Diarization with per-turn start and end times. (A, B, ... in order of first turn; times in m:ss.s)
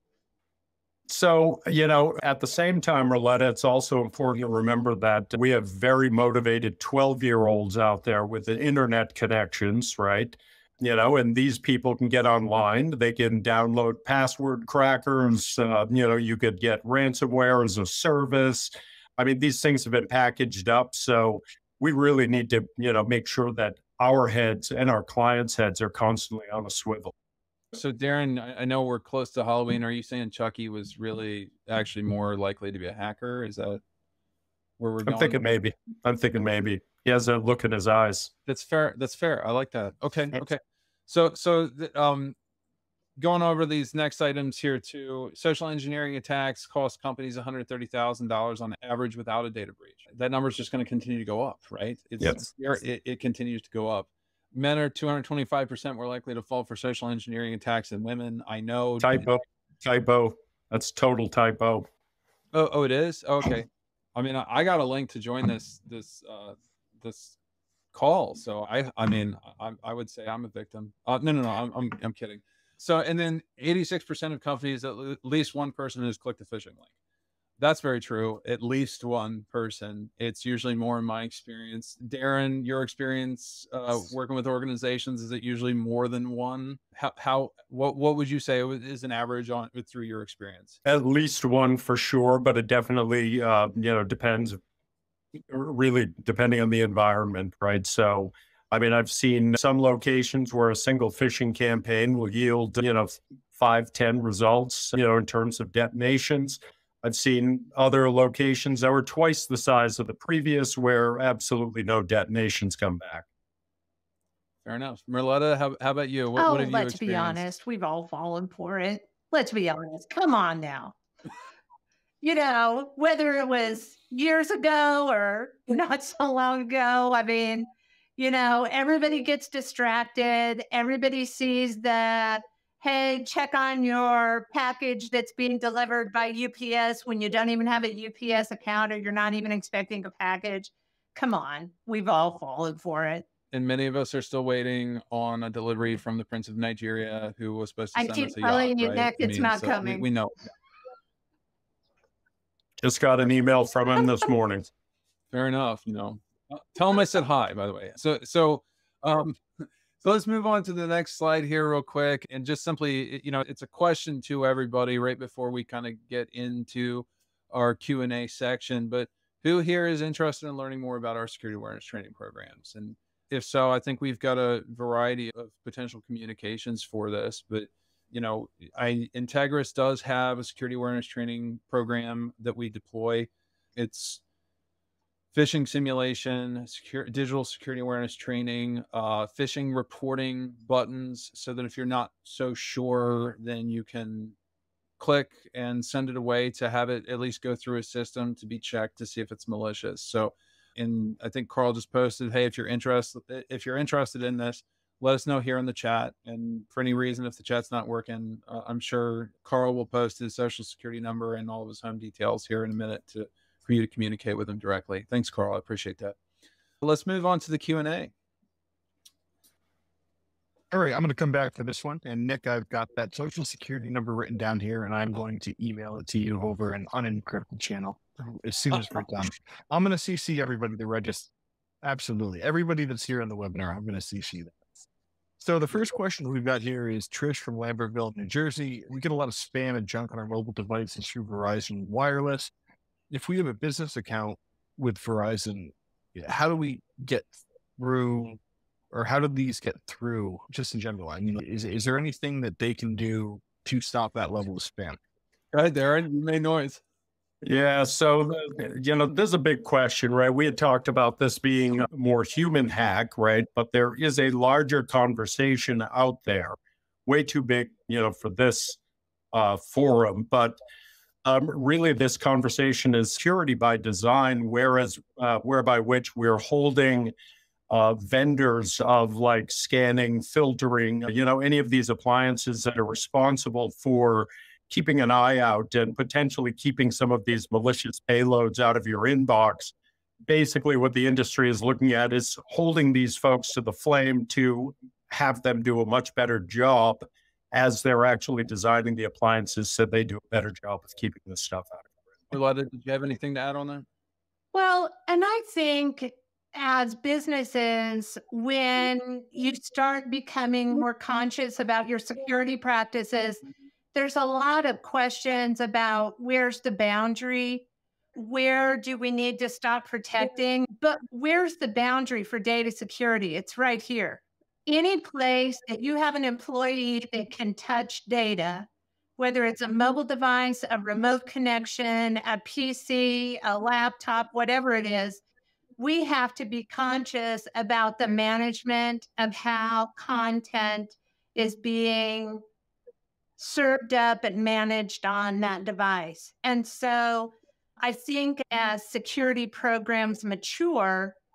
0:01.1-0:27.1 A
0:27.7-0:33.8 B
0:34.8-0:35.4 B
0:35.0-0:38.3 A
0:38.4-0:42.4 B
0:43.2-0:59.2 B
0:59.0-1:01.9 A
1:02.5-1:07.4 B
1:07.9-1:16.9 B
1:17.6-1:30.8 B
1:30.8-1:34.6 A
1:35.5-1:53.3 A
1:54.6-1:57.4 B
1:56.4-2:00.9 C
2:02.2-2:23.2 C
2:23.5-2:30.3 B
2:28.0-2:30.0 C
2:32.8-2:34.7 A
2:35.3-3:04.2 B
3:05.3-3:14.4 B
3:15.0-3:36.2 B
3:36.8-3:38.1 B
3:40.7-3:51.3 D
3:51.8-3:54.6 D
3:55.4-4:02.5 D
4:03.1-4:08.4 D
4:08.9-4:15.0 D
4:15.5-4:16.8 B
4:17.4-4:28.8 A
4:29.3-4:30.6 A
4:31.2-4:37.1 A
4:37.7-4:49.7 A
4:50.3-5:01.9 A
5:02.3-5:03.9 B
5:04.5-5:13.4 C
5:13.9-5:35.2 C
5:35.8-5:42.4 C
5:43.4-5:51.2 C